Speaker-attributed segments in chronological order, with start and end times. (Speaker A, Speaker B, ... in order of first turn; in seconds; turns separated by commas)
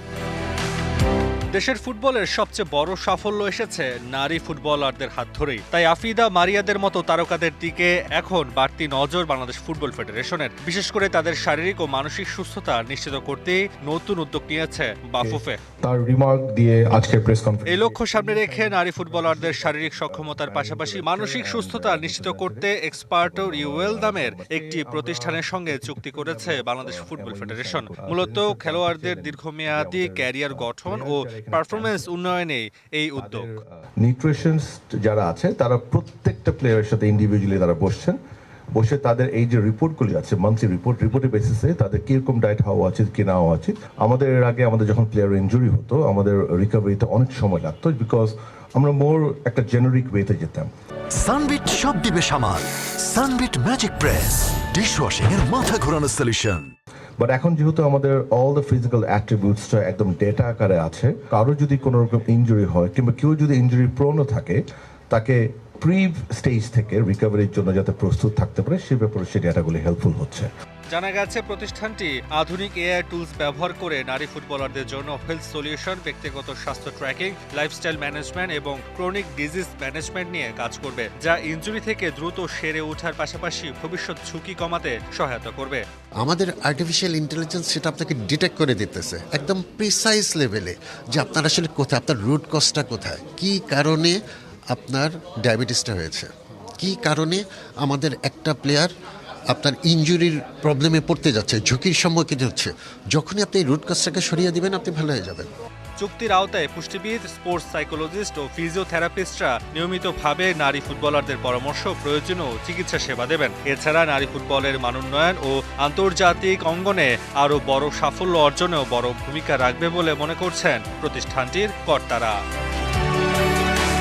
Speaker A: 1.5-15.6, Speaker B: 15.2-32.4, Speaker A: 17.7-33.5, Speaker B: 33.2-38.2, Speaker B: 38.7-50.7, Speaker C: 51.1-56.7, Speaker B: 57.2-70.5, Speaker A: 70.9-85.8, Speaker D: 86.2-94.2, Speaker D: 94.7-98.9, Speaker D: 99.5-105.5, Speaker A: 106.0-122.4